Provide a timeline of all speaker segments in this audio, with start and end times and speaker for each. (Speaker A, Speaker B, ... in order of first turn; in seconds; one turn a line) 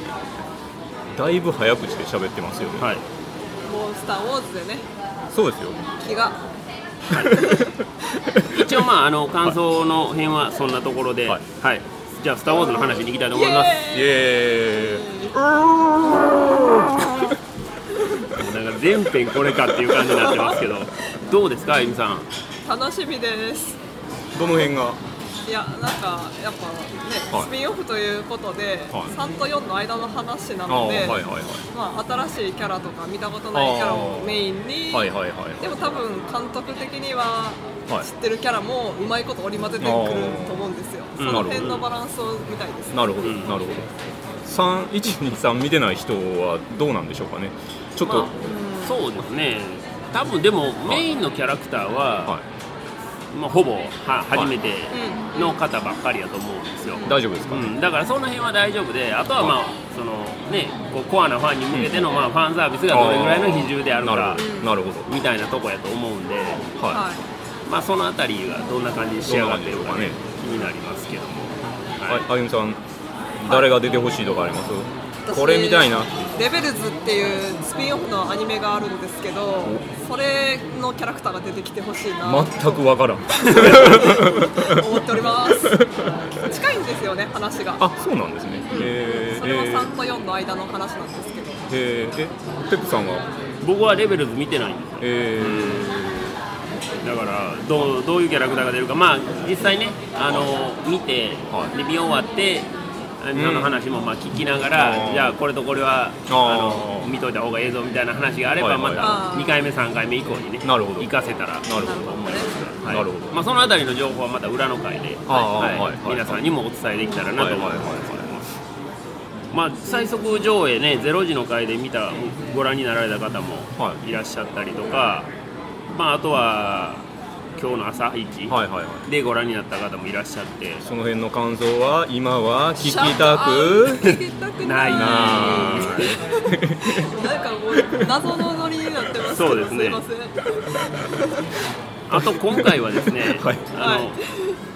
Speaker A: 1.1-2.9
Speaker B: 2.8-3.0
Speaker C: 3.6-4.8
Speaker A: 5.3-5.8
Speaker C: 6.0-6.4
Speaker A: 7.1-8.8
Speaker C: 7.3-7.7
Speaker B: 8.5-13.8
Speaker C: 13.3-14.2
Speaker A: 13.9-17.2
Speaker C: 14.7-15.3
Speaker B: 18.3-22.3
Speaker C: 20.2-20.5
Speaker C: 22.6-23.8
Speaker A: 24.3-25.0
Speaker C: 25.4-43.1
Speaker A: 30.7-31.6
Speaker A: 33.5-36.0
Speaker A: 39.8-40.7
Speaker B: 41.2-41.8
Speaker A: 41.2-41.8
Speaker A: 42.9-48.3
Speaker B: 43.2-43.5
Speaker B: 48.0-52.4
Speaker C: 48.3-49.0
Speaker B: 53.3-64.5
Speaker C: 54.9-55.6
Speaker C: 57.0-57.2
Speaker A: 57.0-57.7
Speaker A: 61.7-62.1
Speaker A: 62.9-65.1
Speaker C: 64.3-64.7
Speaker B: 65.0-66.7
Speaker A: 66.8-67.0
Speaker C: 66.9-67.2
Speaker B: 67.7-72.2
Speaker A: 69.2-70.2
Speaker A: 72.1-72.8
Speaker A: 73.4-76.1
Speaker C: 73.4-73.7
Speaker C: 75.2-82.8
Speaker A: 82.2-86.1
Speaker C: 83.4-85.8
Speaker C: 86.4-87.8
Speaker A: 87.8-89.9
Speaker C: 88.7-91.7
Speaker A: 91.7-93.3
Speaker B: 93.6-96.0
Speaker A: 95.0-96.4
Speaker B: 97.0-118.5
Speaker A: 103.3-103.8
Speaker A: 104.7-105.4
Speaker A: 106.3-107.1
Speaker A: 108.6-109.2
Speaker C: 109.0-109.6
Speaker A: 110.6-111.1
Speaker A: 111.6-113.4
Speaker C: 111.7-112.5
Speaker A: 115.3-116.5
Speaker C: 115.3-115.6
Speaker A: 117.4-118.3
Speaker B: 119.5-125.3
Speaker B: 125.9-127.0
Speaker B: 127.5-130.8
Speaker A: 128.5-129.0
Speaker A: 130.8-134.2
Speaker C: 132.8-141.5
Speaker B: 134.6-136.2
Speaker A: 134.9-137.1
Speaker A: 137.7-138.4
Speaker B: 139.3-140.0
Speaker B: 142.1-144.2
Speaker A: 142.1-143.7
Speaker C: 143.8-144.6